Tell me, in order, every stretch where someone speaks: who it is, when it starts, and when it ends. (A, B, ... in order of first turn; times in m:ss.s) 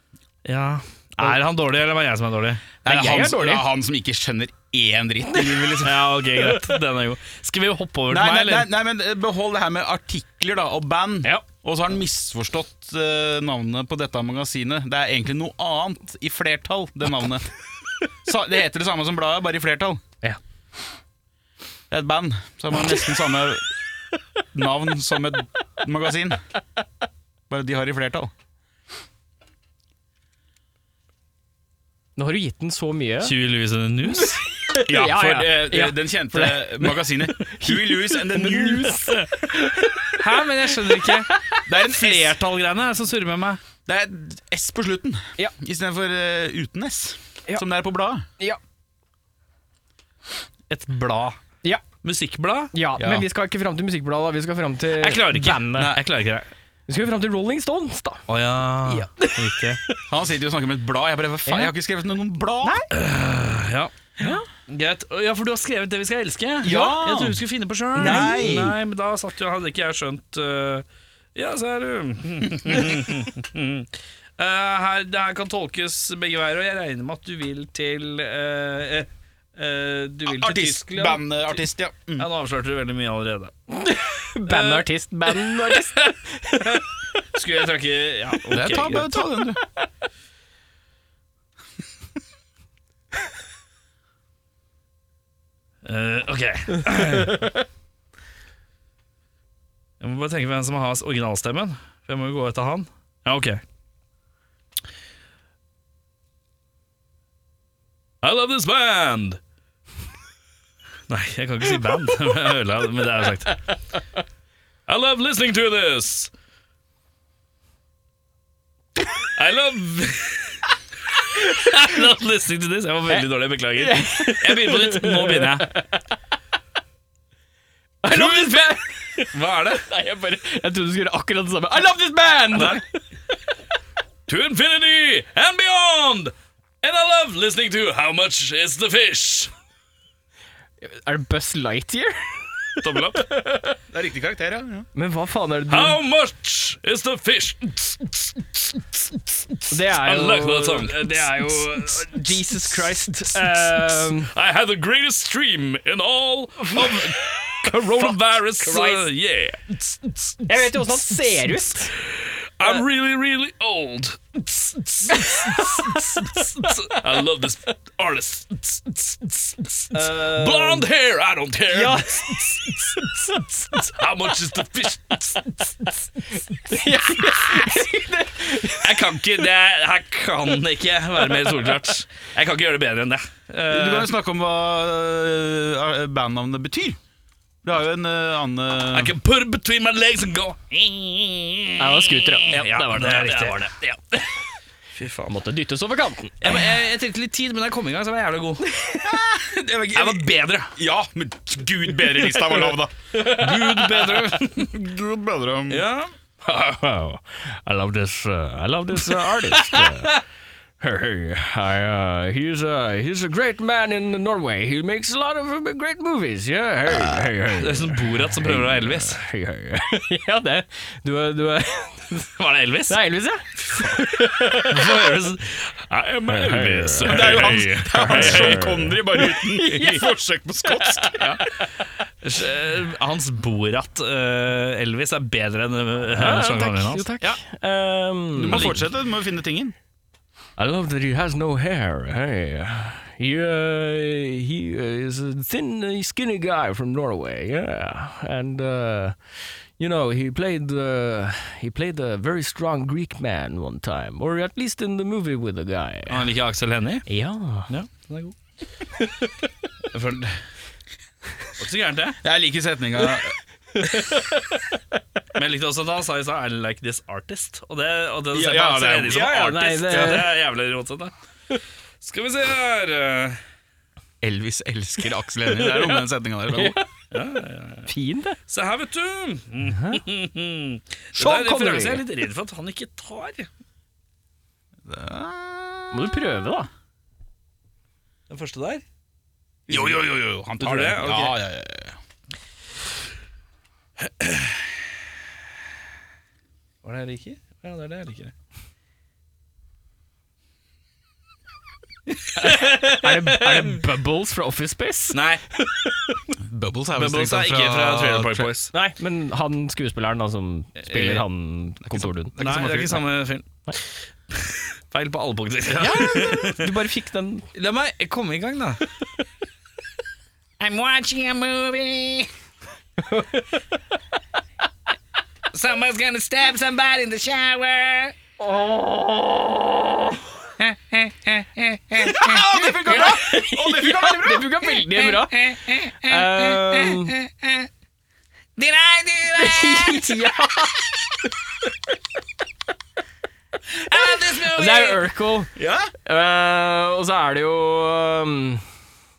0:00.4-0:02.7 A
0:02.8-0:06.1 B
0:02.8-0:03.6 C
0:05.8-0:08.7 A
0:08.1-0:17.4 B
0:18.2-0:20.0 B
0:21.9-0:23.6 B
0:24.5-0:26.4 B
0:27.5-0:28.3 B
0:32.2-0:33.3 C
0:33.2-0:34.4 A
0:34.3-0:41.6 C
0:34.8-0:39.1 B
0:40.1-0:43.6 A
0:41.7-0:42.4 B
0:43.8-0:48.2 B
0:50.7-0:51.4 A
0:52.0-0:52.7 A
0:52.7-0:55.9 C
0:53.0-0:53.2 B
0:55.0-0:56.5 A
0:55.8-0:56.0 B
0:56.9-0:58.2 C
0:58.3-0:59.8 A
0:58.8-1:00.0 C
1:00.1-1:02.8 B
1:01.4-1:01.7 C
1:02.9-1:03.9 A
1:04.2-1:04.4 C
1:04.7-1:23.5 A
1:06.6-1:07.4 B
1:07.9-1:08.6 C
1:08.0-1:08.8 B
1:20.2-1:22.3 B
1:23.7-1:26.8 C
1:24.4-1:26.1 A
1:26.6-1:29.2 A
1:28.5-1:29.6 B
1:35.8-1:37.5 A
1:40.0-1:43.6 A
1:48.2-1:49.4 A
1:51.1-1:53.6 A
1:54.9-1:56.3 A
1:59.3-2:00.6 A
2:01.4-2:05.8 A
2:03.8-2:05.9 C
2:08.0-2:09.3 C
2:08.1-2:09.9 A
2:09.8-2:12.8 C
2:12.5-2:12.8 A
2:14.3-2:19.5 A
2:20.8-2:22.6 C
2:22.8-2:23.2 A
2:23.1-2:23.8 C
2:23.9-2:24.9 B
2:24.9-2:26.0 C
2:25.7-2:55.9 A
2:29.7-2:34.3 C
2:36.7-2:37.0 C
2:38.6-2:39.1 C
2:40.4-2:41.9 C
2:45.1-2:46.7 C
2:49.9-2:50.8 C
2:51.7-2:53.5 C
2:56.5-2:59.2 C
2:57.1-2:57.8 A
2:58.6-3:04.1 A
3:01.2-3:01.7 C
3:03.7-3:07.0 B
3:07.6-3:09.1 B
3:08.9-3:14.2 A
3:11.8-3:13.8 C
3:15.0-3:15.4 A
3:15.3-3:16.6 C
3:16.4-3:18.6 A
3:18.8-3:19.1 C
3:19.0-3:22.9 B
3:19.9-3:20.7 A
3:23.1-3:23.8 C
3:23.2-3:24.7 A
3:23.5-3:25.8 B
3:25.7-3:26.1 A
3:26.4-3:30.2 C
3:28.9-3:30.2 A
3:30.8-3:42.3 C
3:37.5-3:39.2 A
3:42.4-3:43.0 A
3:42.9-3:45.1 C
3:43.6-3:48.8 A
3:46.3-3:51.4 C
3:47.1-3:51.4 B
3:52.2-3:57.4 A
3:56.1-3:58.7 C
3:58.4-3:59.7 B
3:58.5-3:58.8 A
4:00.6-4:16.3 C
4:16.1-4:17.1 A
4:17.1-4:17.7 C
4:17.7-4:18.4 A
4:19.9-4:20.4 A
4:21.6-4:22.2 A
4:22.2-4:23.4 B
4:23.8-4:24.5 C
4:25.3-4:31.1 A
4:28.3-4:29.4 B
4:29.1-4:30.3 C
4:32.0-4:33.4 A
4:34.2-4:36.8 B
4:35.6-4:36.0 C
4:36.5-4:36.8 C
4:37.1-4:37.9 A
4:37.8-4:38.4 C
4:38.5-4:43.5 A
4:39.6-4:40.0 C
4:41.1-4:42.0 C
4:44.8-4:45.9 B
4:45.9-4:46.7 C
4:48.3-4:48.8 A
4:49.7-4:51.4 A
4:49.7-4:52.0 B
4:54.0-4:54.6 A
4:56.8-4:58.3 A
5:02.1-5:03.8 A
5:02.4-5:05.2 C
5:05.1-5:06.2 A
5:06.4-5:08.5 B
5:06.9-5:08.7 A
5:08.7-5:12.3 C
5:10.8-5:11.2 A
5:11.9-5:13.0 B
5:12.4-5:16.7 A
5:15.7-5:17.5 C
5:17.5-5:18.8 A
5:20.6-5:22.3 A
5:23.0-5:23.5 C
5:25.5-5:28.2 A
5:28.4-5:29.6 C
5:30.6-5:33.2 A
5:32.0-5:34.5 B
5:32.5-5:37.1 C
5:34.8-5:37.7 A
5:38.6-5:40.3 A
5:39.3-5:40.9 C
5:43.8-5:45.0 A
5:44.0-5:45.5 C
5:45.6-5:45.9 B
5:46.0-5:48.6 C